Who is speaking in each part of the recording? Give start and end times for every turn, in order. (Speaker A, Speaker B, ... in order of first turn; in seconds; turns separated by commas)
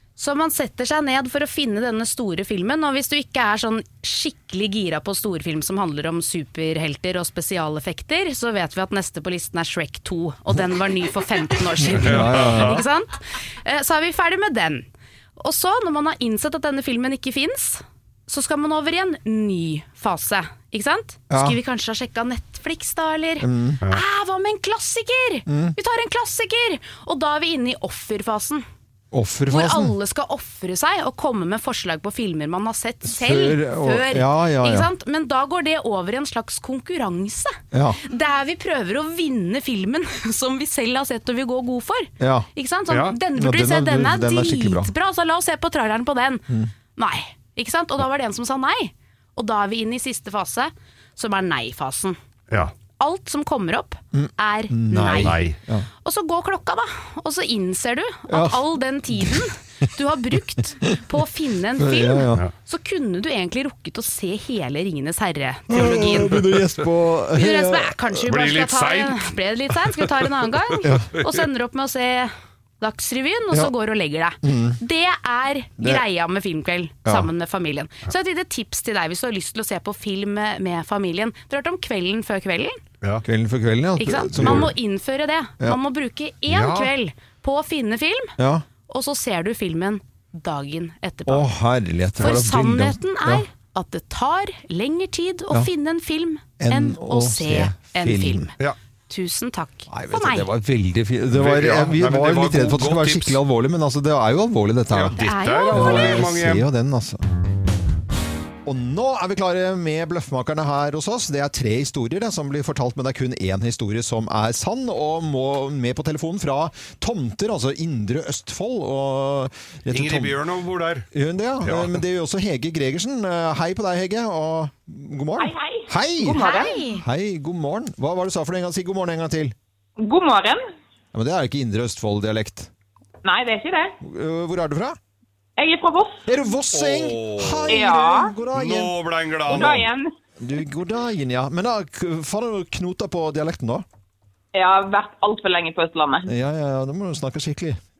Speaker A: 0.2-14.8, Speaker B: 11.8-12.8, Speaker C: 12.0-12.8, Speaker A: 15.4-28.6, Speaker B: 21.3-21.6, Speaker B: 23.4-23.8, Speaker B: 25.5-25.8, Speaker B: 29.1-29.9, Speaker A: 29.5-52.2, Speaker B: 33.0-34.9, Speaker B: 37.7-38.0, Speaker B: 42.2-42.5, Speaker C: 42.9-43.1, Speaker B: 43.3-44.9, Speaker A: 53.0-55.5, Speaker B: 54.1-55.9, Speaker C: 55.1-55.6, Speaker A: 56.0-66.6, Speaker B: 58.3-58.6, Speaker B: 59.1-59.4, Speaker B: 61.8-62.4, Speaker B: 65.7-68.2, Speaker A: 67.3-82.8, Speaker C: 68.2-71.4, Speaker B: 70.8-71.1, Speaker B: 74.4-74.8, Speaker B: 83.2-84.7, Speaker A: 84.0-88.3, Speaker C: 84.4-84.7, Speaker C: 86.5-86.9, Speaker B: 88.4-88.6, Speaker A: 88.9-91.5, Speaker B: 91.3-93.4, Speaker A: 92.2-98.5, Speaker B: 96.6-98.5, Speaker A: 99.1-100.5, Speaker B: 99.9-105.2, Speaker C: 101.3-103.4, Speaker C: 104.9-106.7, Speaker A: 105.2-106.3, Speaker B: 105.7-107.2, Speaker B: 108.7-120.4, Speaker C: 119.9-121.1, Speaker B: 121.1-126.4, Speaker C: 121.6-122.0, Speaker D: 125.4-127.0, Speaker A: 126.4-127.0, Speaker B: 127.0-129.5, Speaker D: 130.0-130.6, Speaker B: 131.1-132.7, Speaker D: 133.2-134.0, Speaker B: 134.0-135.0, Speaker D: 135.6-136.2, Speaker B: 136.2-139.8, Speaker C: 136.7-137.9, Speaker D: 137.7-138.3, Speaker C: 138.5-139.9, Speaker D: 139.5-140.1, Speaker B: 140.4-143.8, Speaker D: 144.5-146.3, Speaker B: 146.3-147.8